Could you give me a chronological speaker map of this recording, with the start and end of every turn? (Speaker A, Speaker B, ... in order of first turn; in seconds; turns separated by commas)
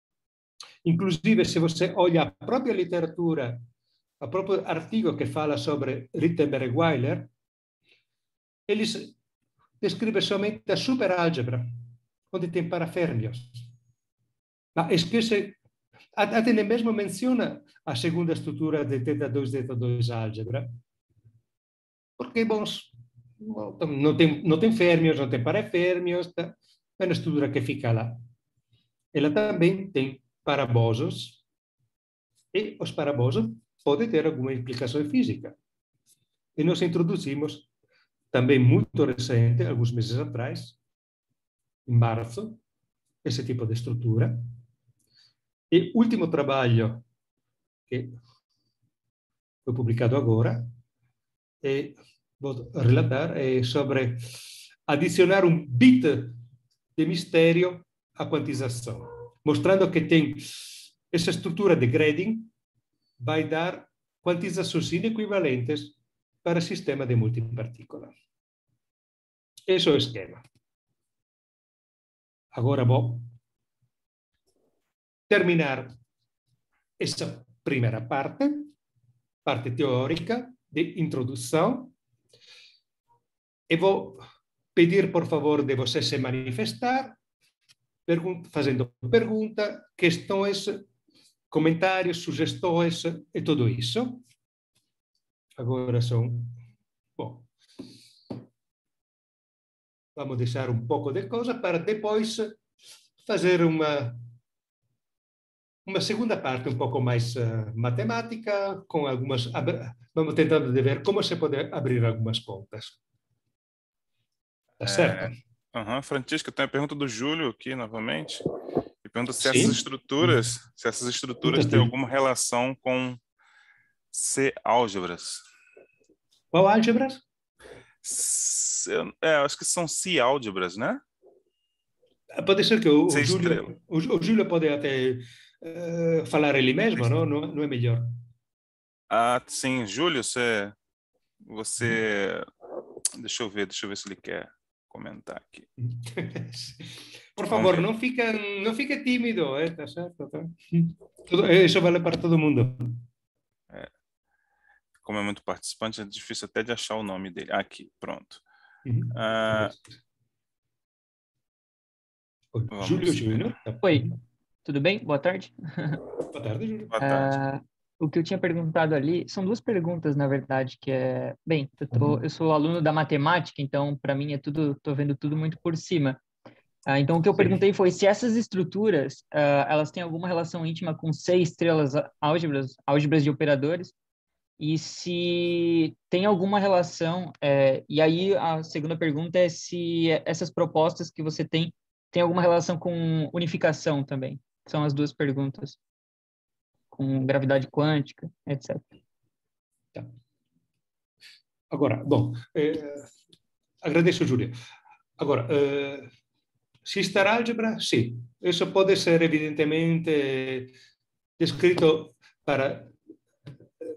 Speaker A: 0.8-3.6, Speaker A: 4.2-7.3, Speaker A: 8.7-9.2, Speaker A: 9.8-11.7, Speaker A: 12.3-13.7, Speaker A: 14.8-15.6, Speaker A: 16.1-20.7, Speaker A: 22.2-28.2, Speaker A: 29.1-31.4, Speaker A: 32.5-35.5, Speaker A: 36.6-37.7, Speaker A: 38.3-40.8, Speaker A: 41.9-42.6, Speaker A: 43.2-44.4, Speaker A: 45.7-47.0, Speaker A: 47.9-48.1, Speaker A: 49.6-50.6, Speaker A: 51.6-54.2, Speaker A: 54.9-56.4, Speaker A: 57.0-62.5, Speaker A: 63.2-68.1, Speaker A: 69.7-70.4, Speaker A: 72.5-73.3, Speaker A: 75.3-75.9, Speaker A: 77.0-78.7, Speaker A: 79.5-81.9, Speaker A: 83.7-84.2, Speaker A: 84.8-87.2, Speaker A: 88.1-90.8, Speaker A: 91.5-94.2, Speaker A: 95.6-96.5, Speaker A: 97.2-97.5, Speaker A: 100.2-102.6, Speaker A: 103.2-104.2, Speaker A: 105.9-113.0, Speaker A: 114.8-115.3, Speaker B: 114.8-118.4, Speaker B: 119.0-123.2, Speaker A: 119.4-120.3, Speaker A: 121.4-121.9, Speaker B: 124.1-125.4, Speaker A: 126.5-127.2, Speaker B: 128.0-131.0, Speaker A: 132.4-138.1, Speaker B: 133.1-133.7, Speaker B: 139.1-140.8, Speaker B: 141.4-142.5, Speaker B: 143.2-145.7, Speaker A: 145.8-153.0, Speaker B: 147.5-147.9, Speaker B: 155.0-158.4, Speaker A: 158.9-159.9, Speaker B: 159.1-159.8, Speaker A: 162.5-164.2, Speaker B: 162.7-163.6, Speaker C: 163.8-164.1, Speaker C: 164.7-166.0, Speaker A: 166.3-166.9, Speaker B: 166.9-167.4, Speaker C: 167.0-176.2, Speaker C: 176.9-183.9, Speaker C: 184.6-195.8, Speaker C: 196.9-198.9, Speaker A: 201.7-203.1, Speaker A: 203.8-204.5, Speaker A: 205.2-206.1, Speaker A: 206.8-210.7, Speaker A: 211.4-212.9